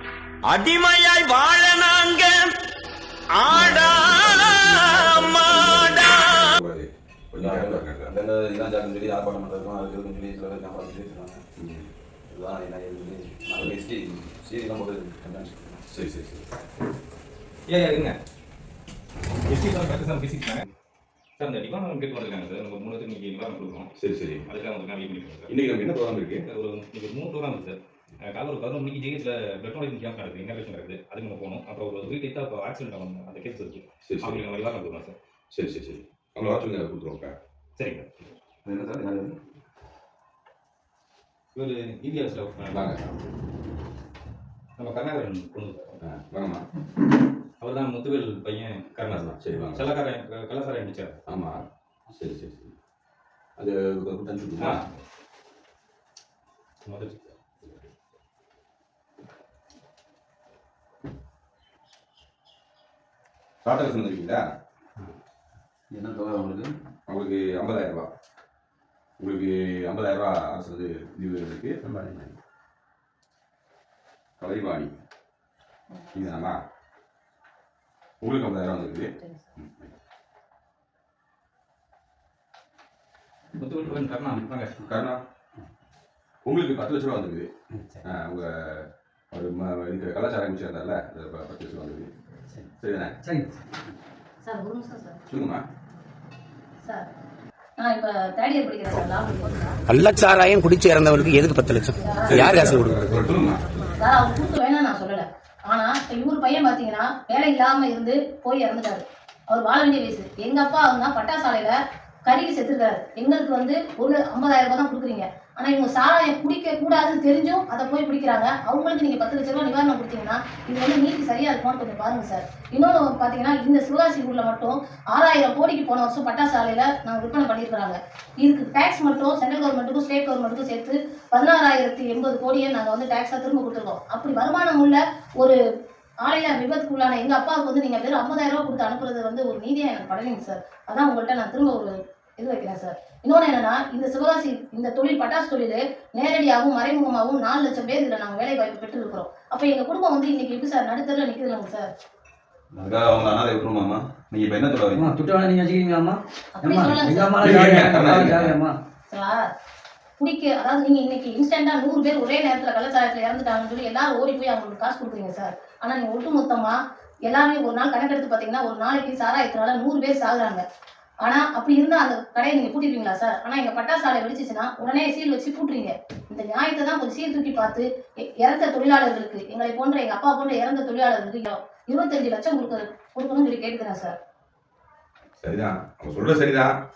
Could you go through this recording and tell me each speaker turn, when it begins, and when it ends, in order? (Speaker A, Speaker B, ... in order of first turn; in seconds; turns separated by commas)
Speaker A: 0.4-2.5, Speaker A: 3.3-6.1, Speaker B: 3.5-8.1, Speaker C: 4.2-5.7, Speaker C: 7.3-11.4, Speaker B: 11.6-11.9, Speaker C: 12.3-15.8, Speaker B: 15.9-16.4, Speaker D: 17.7-18.1, Speaker D: 19.5-20.6, Speaker D: 21.4-23.9, Speaker B: 24.0-24.4, Speaker D: 24.4-25.5, Speaker B: 25.5-26.4, Speaker D: 26.4-35.1, Speaker B: 34.0-34.4, Speaker B: 35.5-37.3, Speaker D: 37.8-38.0, Speaker C: 38.6-39.3, Speaker D: 41.5-43.0, Speaker B: 42.7-43.1, Speaker D: 44.8-46.0, Speaker B: 46.0-46.6, Speaker D: 47.6-51.2, Speaker B: 49.1-49.9, Speaker B: 51.3-51.6, Speaker B: 52.1-52.7, Speaker B: 53.6-54.8, Speaker D: 54.6-54.9, Speaker D: 56.9-57.3, Speaker B: 63.6-64.4, Speaker C: 65.9-66.7, Speaker B: 67.1-68.1, Speaker B: 69.2-71.8, Speaker E: 71.8-72.3, Speaker B: 74.4-74.9, Speaker F: 75.9-76.5, Speaker B: 76.1-76.5, Speaker B: 78.2-79.9, Speaker F: 79.2-79.5, Speaker D: 83.6-84.7, Speaker B: 83.8-85.2, Speaker B: 86.5-87.5, Speaker E: 87.7-88.0, Speaker B: 88.0-92.1, Speaker B: 92.8-93.2, Speaker E: 93.2-93.6, Speaker F: 94.4-95.2, Speaker B: 95.3-95.6, Speaker F: 96.8-97.1, Speaker F: 97.8-99.8, Speaker G: 99.9-103.2, Speaker B: 101.0-101.5, Speaker F: 102.0-102.5, Speaker B: 102.2-103.6, Speaker F: 103.9-135.6, Speaker F: 136.2-151.9, Speaker C: 152.7-155.1, Speaker E: 154.9-158.7, Speaker F: 156.6-157.4, Speaker B: 157.4-158.6, Speaker F: 159.1-159.5, Speaker F: 160.2-170.6, Speaker F: 171.2-177.8, Speaker F: 178.4-184.1, Speaker B: 185.4-186.7